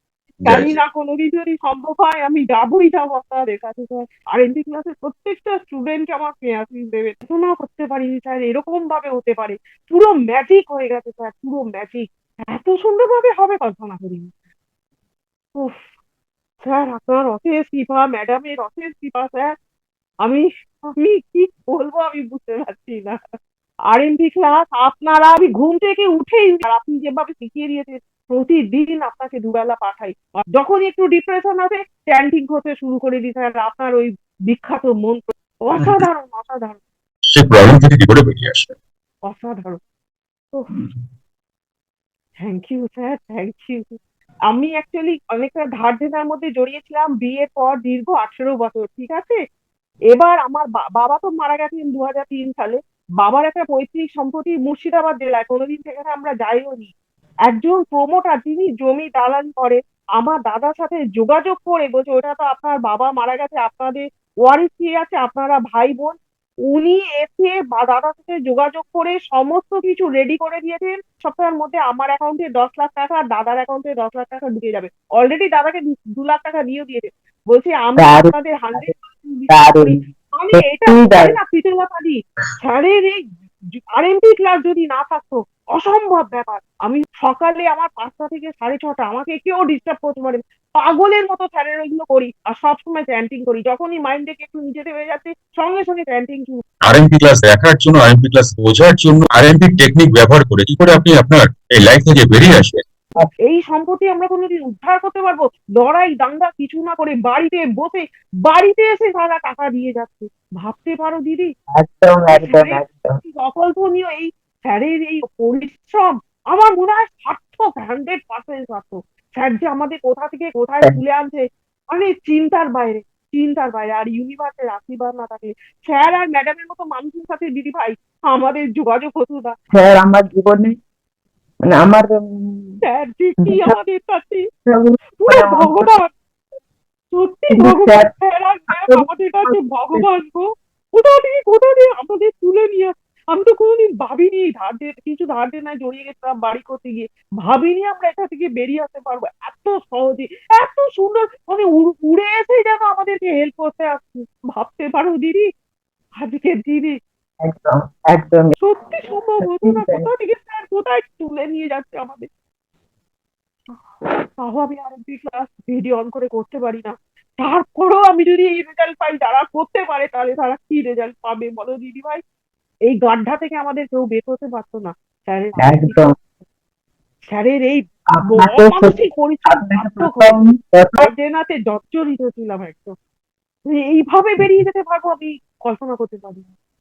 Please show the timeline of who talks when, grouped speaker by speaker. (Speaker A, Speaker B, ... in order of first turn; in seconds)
Speaker A: 0.4-0.8, 37.3-38.7, 96.8-102.8
Speaker B: 0.4-14.3, 15.5-15.8, 16.6-19.5, 20.2-23.2, 23.9-36.8, 39.2-39.8, 42.4-49.4, 50.1-56.9, 57.4-96.6, 103.4-111.5, 112.3-129.6, 132.8-134.4, 135.2-136.1, 137.1-155.5, 156.2-157.0, 158.6-162.3, 164.4-172.2, 172.8-176.1, 177.3-180.4, 181.0-182.9, 183.7-186.5
Speaker C: 78.0-78.9, 79.5-80.0, 80.5-81.4, 111.7-113.2, 129.7-130.8, 131.7-132.8, 133.4-133.7, 134.7-135.9, 137.5-138.1, 138.7-140.0, 157.4-158.6, 159.4-160.1, 175.6-176.1, 178.1-181.1